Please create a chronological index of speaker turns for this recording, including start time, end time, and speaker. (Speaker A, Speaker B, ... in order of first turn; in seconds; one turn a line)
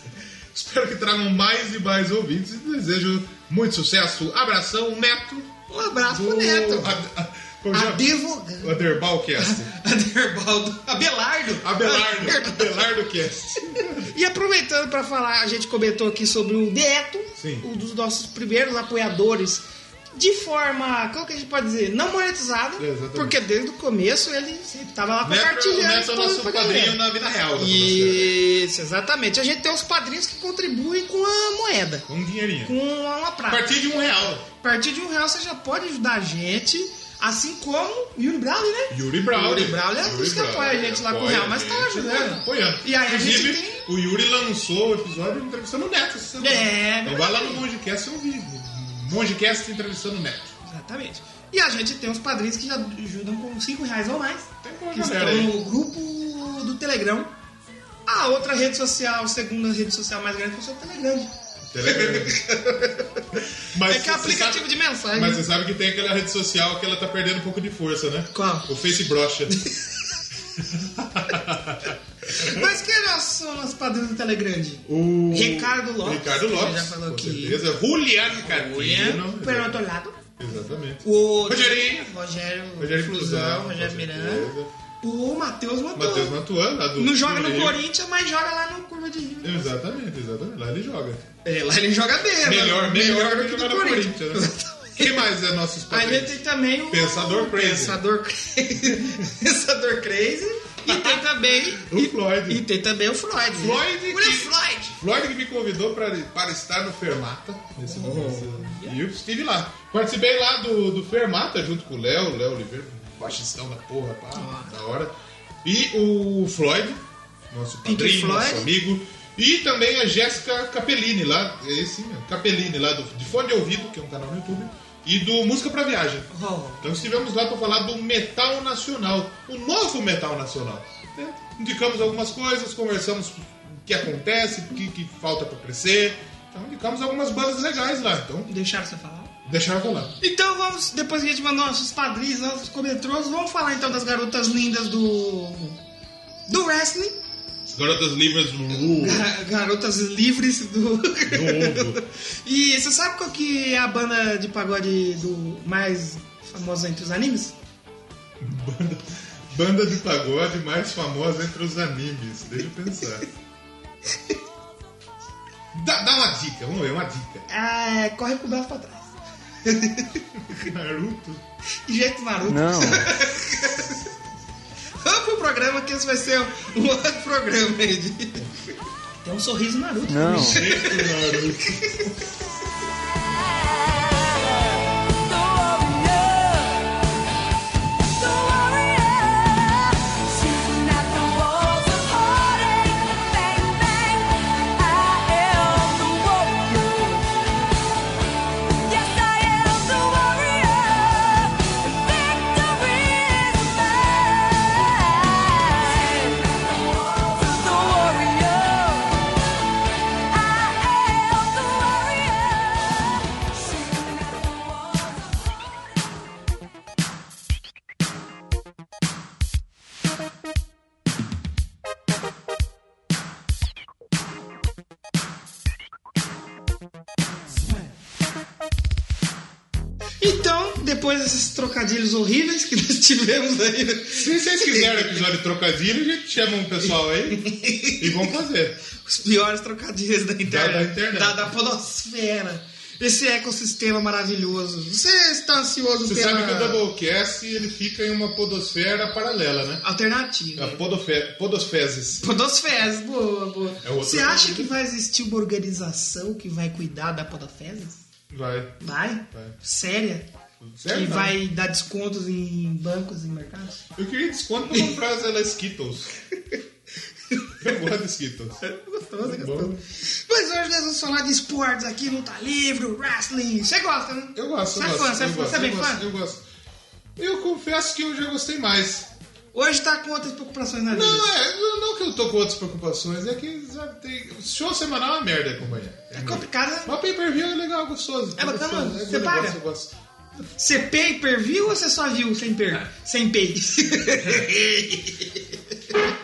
Speaker A: 0.5-5.5
Speaker B: 5.7-7.0
Speaker A: 6.1-9.7
Speaker B: 7.7-12.9
Speaker A: 11.6-14.1
Speaker B: 14.0-27.0
Speaker A: 17.4-17.7
Speaker A: 22.8-23.4
Speaker A: 25.2-28.4
Speaker B: 27.6-32.1
Speaker A: 32.1-32.8
Speaker B: 32.6-33.7
Speaker A: 33.5-34.5
Speaker B: 34.6-43.8
Speaker A: 38.9-50.5
Speaker B: 46.4-47.6
Speaker B: 50.6-57.3
Speaker A: 54.6-55.5
Speaker B: 58.1-61.3
Speaker A: 61.7-62.5
Speaker B: 61.8-63.3
Speaker A: 63.6-69.5
Speaker B: 63.9-65.4
Speaker B: 68.3-68.7
Speaker B: 69.5-69.8
Speaker A: 70.6-72.7
Speaker B: 72.3-77.6
Speaker A: 74.9-79.8
Speaker B: 78.4-80.2
Speaker A: 80.4-82.1
Speaker B: 81.0-86.4
Speaker A: 82.8-84.7
Speaker A: 86.0-87.8
Speaker B: 87.0-89.7
Speaker A: 89.4-91.2
Speaker B: 91.4-95.3
Speaker A: 92.4-96.4
Speaker B: 95.9-105.0
Speaker A: 96.9-98.0
Speaker A: 98.8-99.3
Speaker A: 100.9-102.6
Speaker A: 103.5-115.1
Speaker B: 107.8-109.0
Speaker B: 114.3-114.8
Speaker A: 115.6-126.3
Speaker B: 117.8-118.7
Speaker B: 126.3-126.9
Speaker A: 126.8-138.5
Speaker B: 138.5-139.3
Speaker A: 139.5-140.2
Speaker B: 140.2-145.8
Speaker B: 146.5-147.2
Speaker A: 147.7-149.3
Speaker B: 148.8-157.6
Speaker A: 151.2-152.0
Speaker A: 158.4-163.3
Speaker A: 165.7-167.5
Speaker B: 167.5-170.2
Speaker A: 170.4-171.4
Speaker B: 171.9-174.0
Speaker B: 175.0-178.5
Speaker B: 179.2-182.1
Speaker A: 180.3-182.0
Speaker C: 183.8-186.9
Speaker C: 188.2-197.2
Speaker C: 198.9-209.2
Speaker C: 210.3-212.9
Speaker C: 213.6-215.2
Speaker B: 230.2-235.2
Speaker A: 234.1-237.4
Speaker B: 237.3-238.3
Speaker A: 238.0-238.8
Speaker B: 238.9-246.8
Speaker A: 240.4-241.4
Speaker A: 246.1-249.8
Speaker B: 249.8-250.8
Speaker A: 250.6-252.2
Speaker B: 252.2-258.0
Speaker A: 253.8-254.7
Speaker A: 258.3-258.8
Speaker B: 258.8-260.3
Speaker A: 259.3-259.6
Speaker A: 260.6-261.4
Speaker B: 260.9-263.8
Speaker A: 263.9-266.1
Speaker B: 264.7-265.0
Speaker B: 267.3-267.6
Speaker A: 267.6-268.6
Speaker B: 268.6-276.1
Speaker A: 269.2-269.8
Speaker A: 274.4-276.4
Speaker A: 277.2-279.1
Speaker B: 279.5-281.3
Speaker A: 280.9-289.9
Speaker B: 286.1-286.9
Speaker B: 288.4-289.6
Speaker B: 290.6-296.1
Speaker A: 294.2-294.5